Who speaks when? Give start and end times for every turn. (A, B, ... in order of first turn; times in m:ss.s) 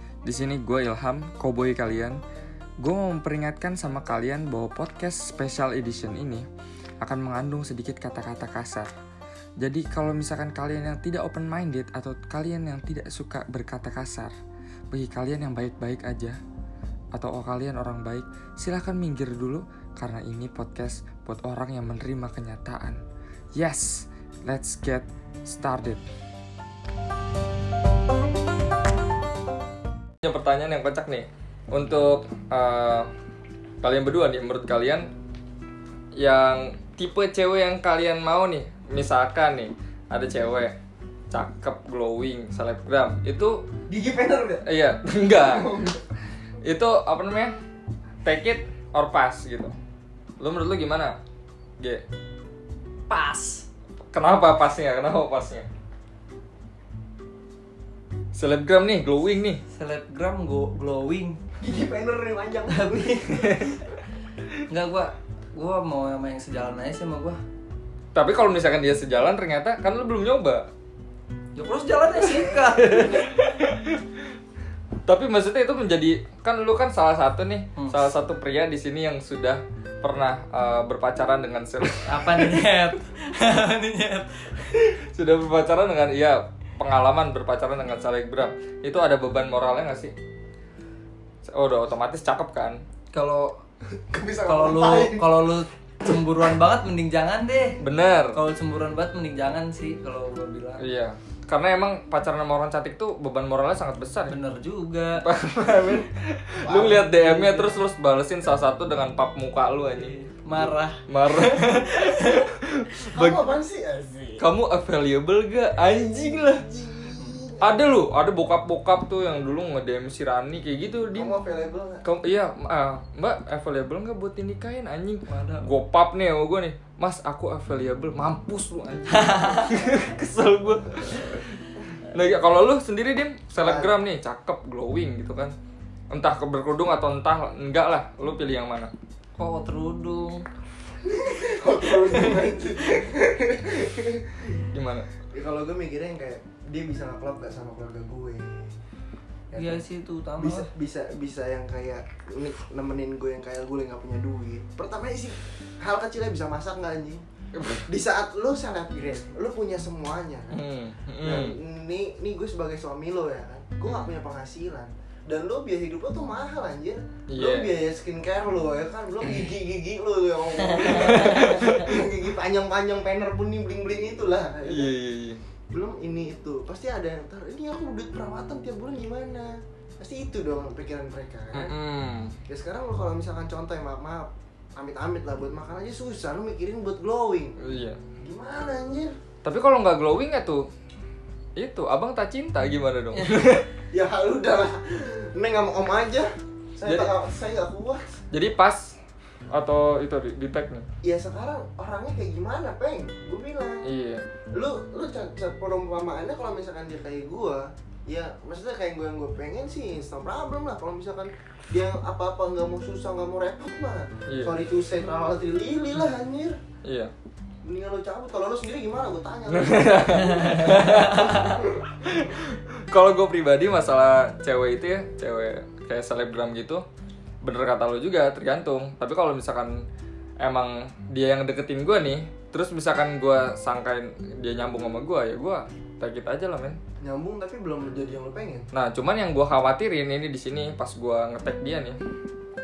0:00.2-0:02.2 A
0:02.8-0:06.5 A
0:07.0-0:08.9 A
0:09.6-0:14.3 A
0:14.9-0:16.4 A
0:17.1-0:23.0 A
0:23.6-0:26.0 A
0:30.2-0:33.1 A
0:33.8-0:35.1 A
0:36.2-0:40.7 A
0:41.3-0:43.6 A
0:43.9-0:44.6 B
0:44.6-0:45.7 A
0:45.4-0:46.0 B
0:46.6-0:47.5 A
0:48.2-0:49.7 A
0:50.4-0:51.2 A
0:53.1-0:53.7 C
0:54.1-0:55.7 A
0:58.4-0:59.6 A
0:59.7-1:01.4 C
1:01.6-1:03.3 B
1:02.7-1:03.6 C
1:03.3-1:03.7 A
1:04.7-1:07.4 C
1:08.1-1:10.7 A
1:11.6-1:13.3 C
1:12.4-1:14.0 A
1:15.1-1:22.7 A
1:17.8-1:18.1 C
1:22.1-1:24.7 C
1:25.0-1:30.1 A
1:31.4-1:32.8 A
1:33.1-1:33.6 C
1:34.1-1:35.4 B
1:34.4-1:40.8 C
1:37.8-1:38.4 A
1:40.8-1:44.4 A
1:44.3-1:45.2 C
1:45.2-1:50.1 A
1:46.6-1:47.1 B
1:46.9-1:47.8 C
1:49.9-1:52.5 C
1:51.1-1:53.6 A
1:53.1-1:54.4 B
1:54.4-1:56.7 A
1:56.1-1:57.9 B
1:57.2-1:57.4 C
1:57.6-2:01.4 A
2:01.1-2:02.0 B
2:02.0-2:15.5 A
2:05.3-2:05.7 C
2:09.1-2:09.9 C
2:13.6-2:13.9 B
2:16.1-2:18.9 A
2:19.4-2:20.4 C
2:21.0-2:24.5 B
2:24.7-2:25.1 A
2:25.3-2:28.8 B
2:29.5-2:29.8 B
2:29.6-2:30.7 C
2:30.4-2:37.2 B
2:37.6-2:37.9 A
2:37.9-2:40.6 B
2:40.5-2:41.6 A
2:41.2-2:55.0 B
2:47.3-2:47.7 A
2:50.9-2:51.9 A
2:51.0-2:51.7 C
2:54.7-2:55.4 A
2:55.7-3:01.8 B
3:01.5-3:02.4 A
3:02.5-3:07.6 B
3:07.6-3:08.0 A
3:08.2-3:09.1 B
3:09.4-3:10.7 A
3:11.6-3:13.7 A
3:13.9-3:18.0 B
3:16.9-3:17.1 A
3:18.3-3:19.0 A
3:19.5-3:20.9 A
3:21.0-3:23.8 B
3:23.8-3:24.2 A
3:24.5-3:36.6 B
3:34.3-3:34.6 A
3:36.8-3:37.1 A
3:37.6-3:41.7 B
3:39.5-3:46.8 A
3:47.4-3:49.7 A
3:50.4-3:56.8 A
3:57.0-3:58.7 B
3:58.7-4:02.0 A